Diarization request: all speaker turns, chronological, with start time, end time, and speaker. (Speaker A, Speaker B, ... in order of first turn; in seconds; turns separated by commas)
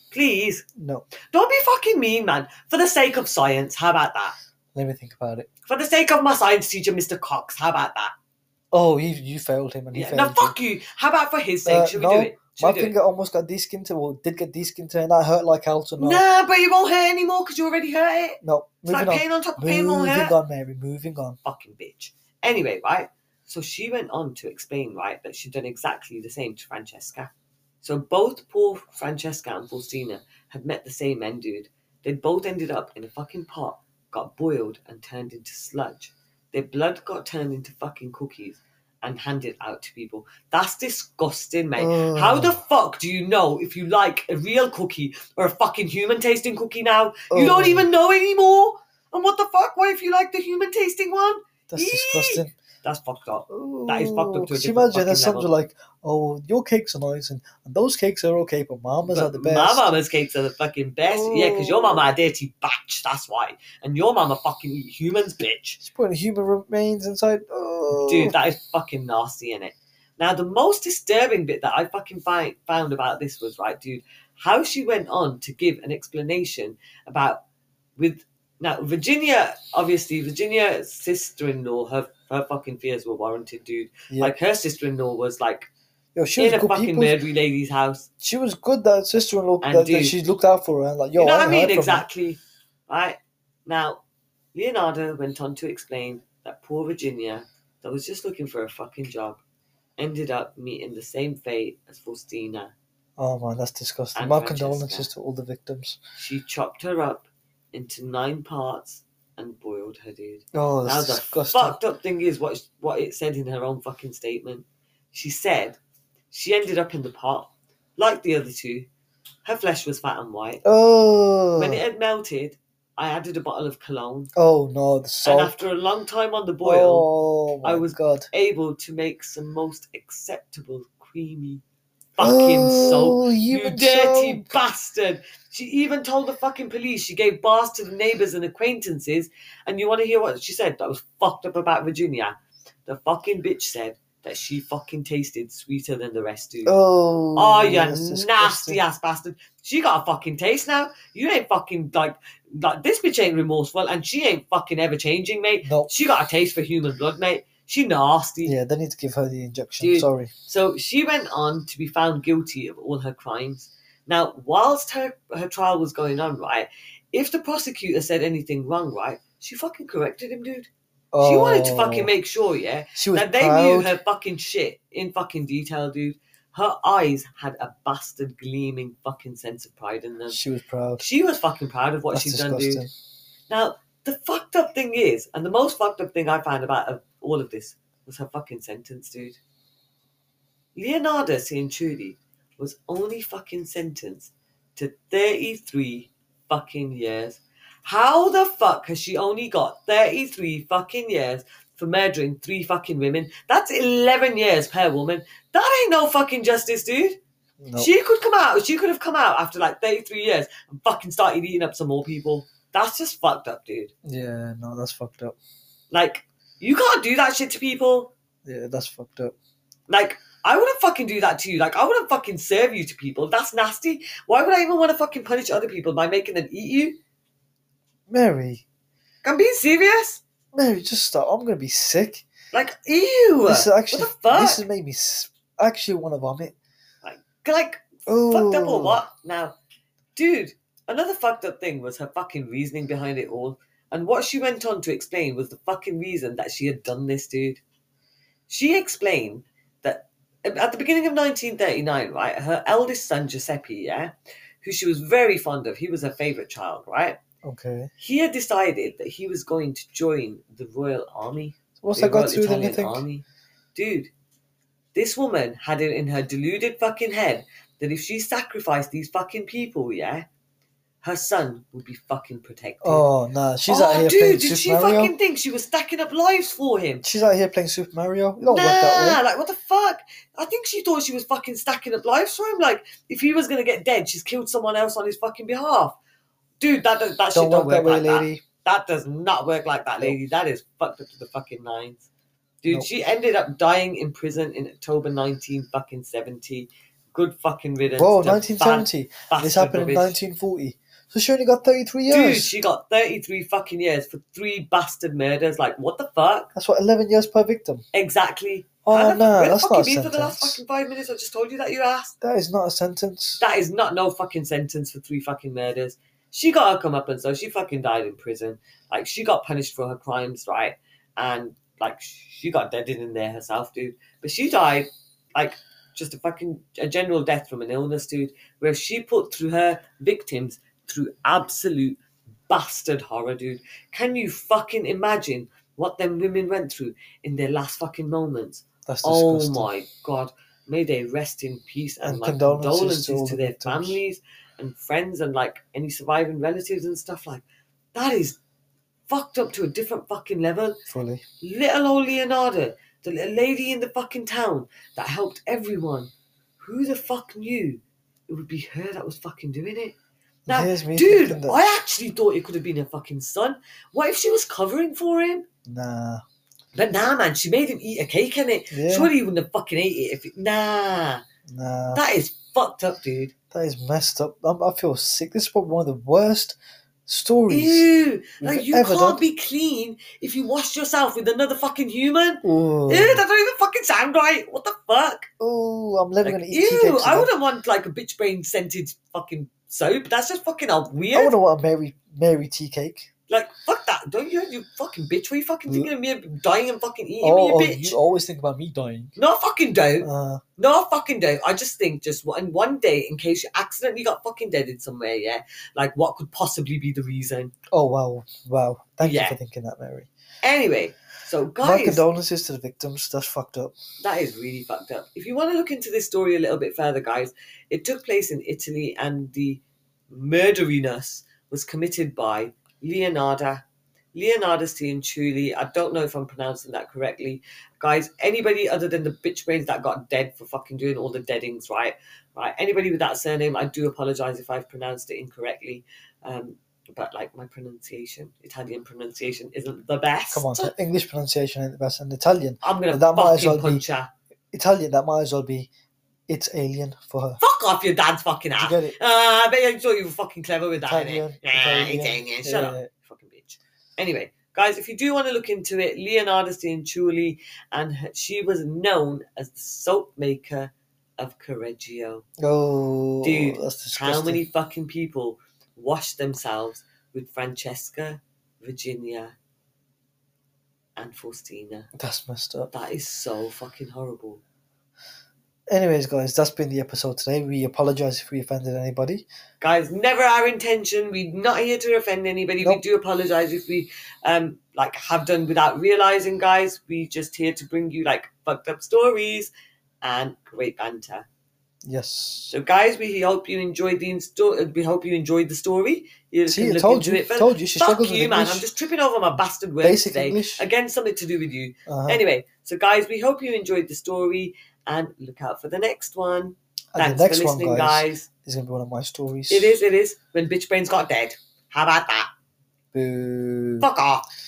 Speaker A: 0.1-0.7, Speaker B: 0.8-1.1, Speaker A: 1.3-4.3, Speaker B: 4.8-5.5, Speaker A: 5.7-8.1, Speaker B: 8.7-10.6, Speaker A: 9.9-12.9, Speaker B: 11.7-16.2, Speaker A: 16.0-20.4, Speaker B: 18.4-21.4, Speaker A: 21.4-27.3, Speaker A: 27.8-55.5, Speaker B: 41.8-42.6, Speaker B: 47.3-47.9, Speaker B: 51.7-52.5, Speaker B: 53.5-59.9, Speaker A: 59.1-65.8, Speaker B: 61.1-62.1, Speaker B: 65.8-68.3, Speaker A: 67.9-77.4, Speaker A: 78.0-85.7, Speaker B: 86.2-87.2, Speaker A: 86.4-88.1, Speaker B: 88.2-92.1, Speaker A: 89.6-90.1, Speaker A: 91.2-94.0, Speaker A: 94.5-99.4, Speaker A: 100.0-102.7, Speaker B: 103.2-106.0, Speaker A: 104.2-105.1, Speaker A: 106.2-115.8, Speaker B: 110.5-111.8, Speaker A: 116.3-118.9, Speaker A: 119.5-120.6, Speaker B: 120.6-121.8, Speaker A: 121.6-124.3, Speaker B: 124.4-125.7, Speaker A: 125.2-127.1, Speaker B: 126.6-128.3, Speaker A: 127.6-131.6, Speaker A: 132.2-146.8, Speaker B: 132.2-134.5, Speaker B: 146.7-148.8, Speaker A: 147.4-158.6, Speaker B: 155.6-155.9, Speaker B: 158.4-160.3, Speaker A: 159.8-170.7, Speaker B: 171.1-172.1, Speaker A: 171.2-180.4, Speaker B: 172.9-174.0, Speaker B: 180.3-181.0, Speaker A: 181.0-182.8, Speaker B: 182.1-182.9, Speaker A: 183.5-189.4, Speaker A: 190.8-207.2, Speaker B: 207.6-207.9, Speaker A: 207.8-213.9, Speaker B: 214.0-215.4, Speaker A: 215.9-218.1, Speaker B: 218.5-219.3, Speaker A: 219.9-227.0, Speaker B: 228.1-228.7, Speaker A: 229.2-230.2, Speaker B: 230.5-232.2, Speaker A: 232.5-234.7, Speaker B: 233.5-236.6, Speaker A: 237.0-239.6, Speaker B: 238.1-239.0, Speaker A: 240.2-247.6, Speaker A: 248.5-257.2, Speaker B: 257.4-257.9, Speaker A: 258.0-264.1, Speaker B: 261.8-263.1, Speaker A: 264.9-270.3, Speaker A: 271.0-273.1, Speaker B: 272.8-275.1, Speaker A: 273.7-277.1, Speaker B: 277.0-279.2, Speaker A: 278.4-286.0, Speaker A: 286.6-292.1, Speaker B: 287.3-288.4, Speaker A: 292.6-300.2, Speaker B: 298.0-302.5, Speaker A: 302.1-306.5, Speaker B: 306.6-307.8, Speaker A: 307.9-312.1, Speaker B: 308.9-310.6, Speaker B: 312.2-313.4, Speaker A: 313.4-348.4, Speaker B: 338.9-339.7, Speaker B: 342.0-344.0, Speaker A: 349.1-350.8, Speaker B: 350.9-351.2, Speaker A: 351.4-359.9, Speaker B: 360.5-361.6, Speaker A: 360.5-365.5, Speaker B: 365.7-366.2, Speaker A: 366.7-371.2, Speaker B: 368.7-369.1, Speaker B: 371.5-372.0, Speaker A: 371.9-373.3, Speaker B: 373.5-377.9, Speaker A: 377.5-385.3, Speaker B: 378.4-379.2, Speaker B: 382.4-383.2, Speaker B: 385.4-387.3, Speaker A: 386.2-391.3, Speaker B: 391.1-393.1, Speaker A: 393.3-398.0, Speaker B: 397.2-399.1, Speaker A: 399.2-407.5, Speaker B: 400.0-400.4, Speaker B: 407.7-410.1, Speaker A: 409.0-409.4, Speaker A: 410.4-412.0, Speaker B: 411.6-413.8, Speaker A: 414.0-440.7, Speaker B: 440.3-443.8, Speaker A: 442.6-444.1, Speaker B: 444.5-445.7, Speaker B: 446.3-447.4, Speaker A: 447.4-462.3, Speaker B: 448.6-449.0, Speaker B: 450.8-452.9, Speaker B: 462.4-464.4, Speaker A: 463.2-469.4, Speaker A: 471.0-471.9, Speaker B: 472.0-472.7, Speaker A: 472.7-474.4, Speaker B: 475.7-479.3, Speaker A: 479.6-489.5, Speaker A: 490.0-491.3, Speaker B: 491.8-492.5, Speaker A: 492.5-508.3, Speaker B: 496.5-498.7, Speaker B: 499.8-500.6, Speaker B: 501.9-502.2, Speaker B: 506.9-509.8, Speaker A: 509.5-512.3, Speaker B: 512.9-513.9, Speaker A: 513.8-514.3